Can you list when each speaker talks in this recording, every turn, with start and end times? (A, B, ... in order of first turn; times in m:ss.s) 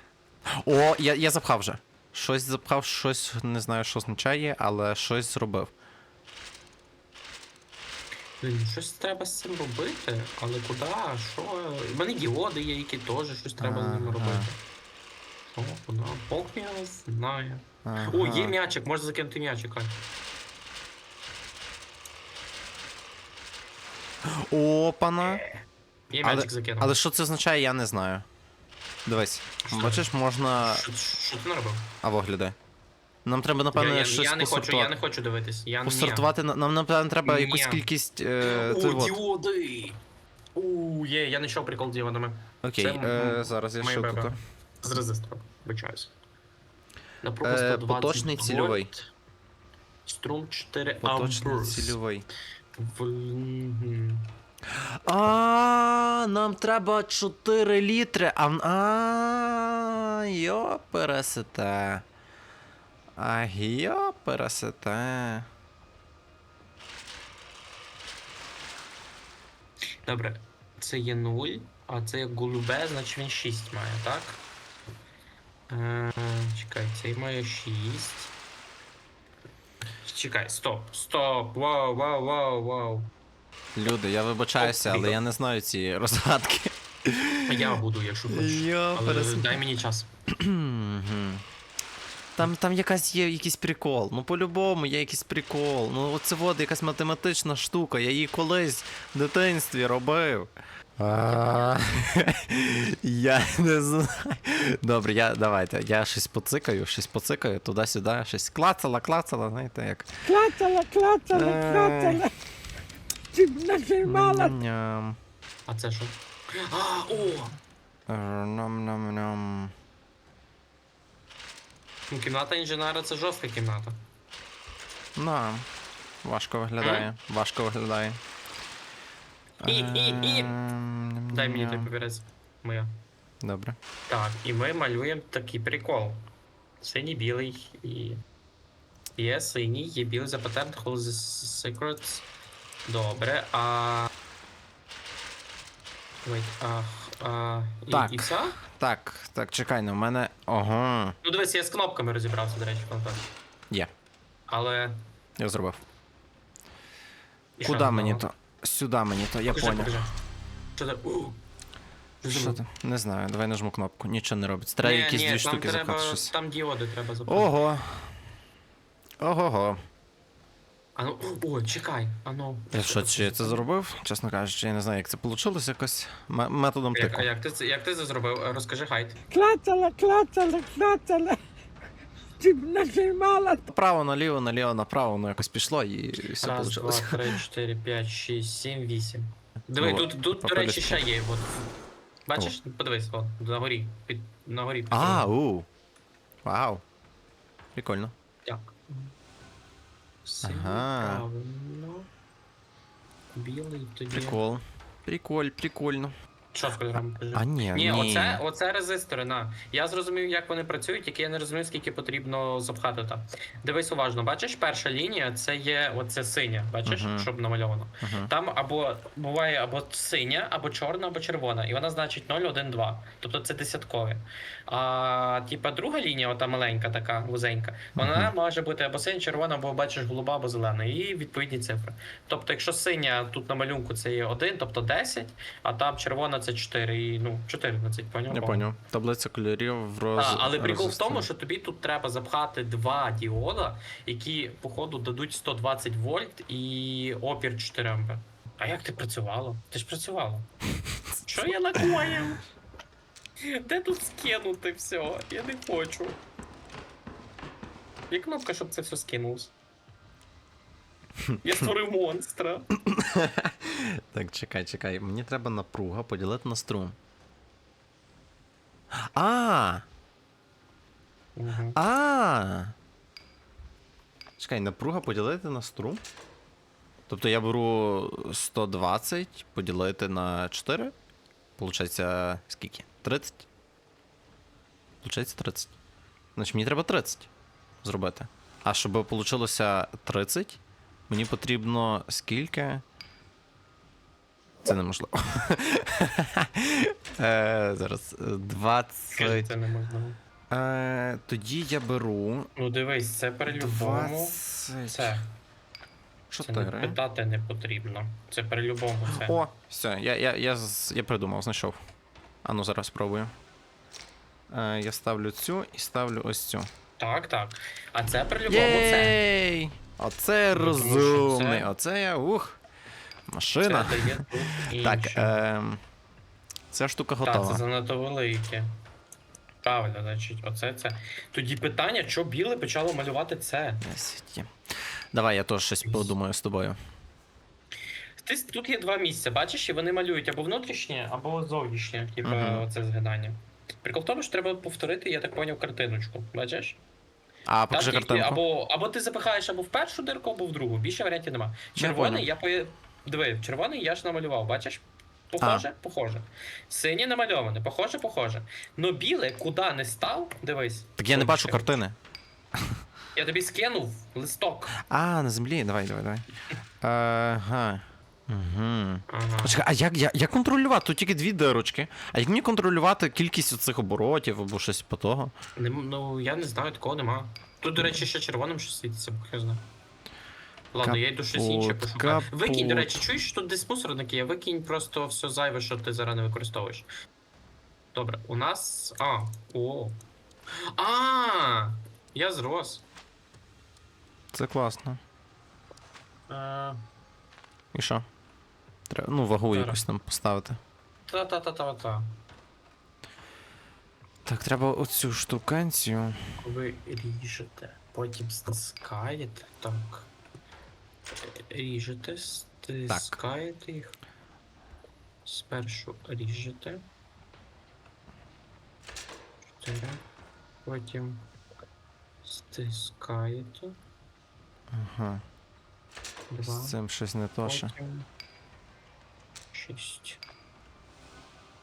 0:00.5-0:05.7 A
0:08.4-0:14.6 B
0:13.6-0:14.5 A
0:15.5-0:20.0 B
0:17.8-0:18.6 A
0:24.2-0:25.4 A
0:25.2-0:27.0 B
0:26.2-0:28.3 A
0:29.1-0:30.8 A
0:29.6-0:30.1 B
0:30.6-0:31.9 B
0:32.0-0:32.6 A
0:33.2-0:34.9 A
0:33.7-0:36.3 B
0:35.8-0:39.2 A
0:37.2-0:37.8 B
0:38.4-0:40.0 B
0:40.6-0:46.1 B
0:42.6-0:44.4 A
0:47.2-0:49.0 B
0:47.4-0:48.9 A
0:50.1-0:52.0 B
0:51.0-0:52.3 A
0:52.8-0:54.3 B
0:54.7-1:02.0 A
1:03.2-1:05.5 A
1:10.0-1:14.4 B
1:15.7-1:18.3 B
1:20.0-1:23.1 B
1:23.8-1:27.8 A
1:24.6-1:25.2 B
1:27.5-1:30.1 B
1:28.3-1:29.6 A
1:30.3-1:31.4 A
1:32.4-1:50.1 A
1:50.2-1:52.3 C
1:51.3-1:52.3 A
1:53.3-1:54.6 C
1:54.0-1:55.2 A
1:55.7-1:57.6 B
1:58.1-1:59.7 A
2:02.1-2:04.0 B
2:05.2-2:05.7 A
2:06.2-2:08.2 A
2:06.8-2:07.1 B
2:09.6-2:11.9 A
2:09.6-2:10.6 B
2:11.3-2:12.9 B
2:13.4-2:13.8 A
2:14.1-2:16.2 B
2:16.8-2:18.2 B
2:19.2-2:22.3 B
2:22.8-2:24.1 B
2:26.2-2:28.6 B
2:27.9-2:31.2 A
2:31.2-2:33.3 B
2:34.5-2:35.0 B
2:35.4-2:35.8 A
2:37.6-2:38.2 B
2:37.6-2:40.0 A
2:39.5-2:40.2 B
2:40.8-2:41.4 B
2:42.2-2:42.6 B
2:42.3-2:46.3 A
2:44.8-2:47.5 B
2:47.3-2:48.2 A
2:49.2-2:49.8 A
2:51.0-2:53.6 B
2:52.7-2:57.3 A
2:56.9-2:59.2 B
2:59.3-3:01.4 C
3:02.4-3:03.7 C
3:03.7-3:07.3 A
3:06.4-3:11.6 B
3:09.8-3:11.1 A
3:12.3-3:15.3 B
3:14.9-3:15.7 A
3:16.4-3:16.8 A
3:17.8-3:18.1 A
3:18.4-3:19.1 B
3:20.2-3:22.1 B
3:20.4-3:21.2 A
3:23.3-3:24.4 B
3:24.1-3:26.2 A
3:26.5-3:58.6 B
3:26.9-3:28.4 A
3:36.8-3:37.3 A
3:38.0-3:38.3 A
3:48.0-3:48.3 A
3:58.3-4:01.3 A
4:00.2-4:10.5 B
4:11.3-4:12.4 B
4:11.3-4:12.0 A
4:13.4-4:16.2 B
4:18.1-4:19.5 B
4:21.2-4:21.6 A
4:21.4-4:22.7 B
4:22.7-4:27.0 A
4:28.9-4:29.8 A
4:31.4-4:31.8 B
4:31.8-4:32.8 A
4:34.4-4:36.0 A
4:37.1-4:40.9 A
4:41.6-4:43.5 A
4:45.0-4:45.7 A
4:46.4-4:47.3 A
4:47.8-4:52.8 A
4:54.6-4:59.5 A
4:59.1-5:00.2 B
5:00.5-5:02.5 A
5:02.6-5:05.3 B
5:03.4-5:05.2 A
5:06.3-5:07.0 A
5:06.4-5:09.4 B
5:09.1-5:11.8 A
5:12.4-5:13.3 A
5:14.5-5:16.7 A
5:17.0-5:19.2 B
5:18.5-5:22.6 A
5:20.5-5:21.7 B
5:23.3-5:25.8 A
5:23.6-5:25.3 B
5:26.7-5:27.6 A
5:27.2-5:28.7 B
5:29.6-5:33.8 B
5:33.8-5:34.5 A
5:35.1-5:36.8 A
5:35.8-5:36.1 B
5:38.2-5:46.8 B
5:42.2-5:42.7 A
5:47.5-5:48.4 A
5:47.7-6:01.8 B
5:51.8-5:52.3 A
6:01.0-6:02.0 A
6:02.5-6:02.8 A
6:03.1-6:04.8 B
6:04.8-6:06.3 A
6:06.8-6:15.3 A
6:09.1-6:09.6 B
6:15.6-6:19.6 B
6:17.8-6:18.0 A
6:20.7-6:26.9 B
6:20.8-6:23.1 A
6:27.9-6:30.0 B
6:30.5-6:32.8 B
6:34.3-6:35.0 A
6:36.3-6:36.8 B
6:37.7-6:38.1 A
6:38.9-6:40.6 A
6:39.5-6:39.8 B
6:41.1-6:42.1 B
6:44.2-6:46.2 A
6:46.4-6:50.1 B
6:51.2-6:54.0 B
6:52.9-6:53.2 A
6:55.2-6:56.8 B
6:59.5-7:00.0 B
7:00.6-7:01.2 B
7:02.2-7:03.8 B
7:04.7-7:05.2 A
7:06.3-7:06.8 B
7:06.4-7:07.7 A
7:07.4-7:08.1 B
7:09.5-7:10.2 B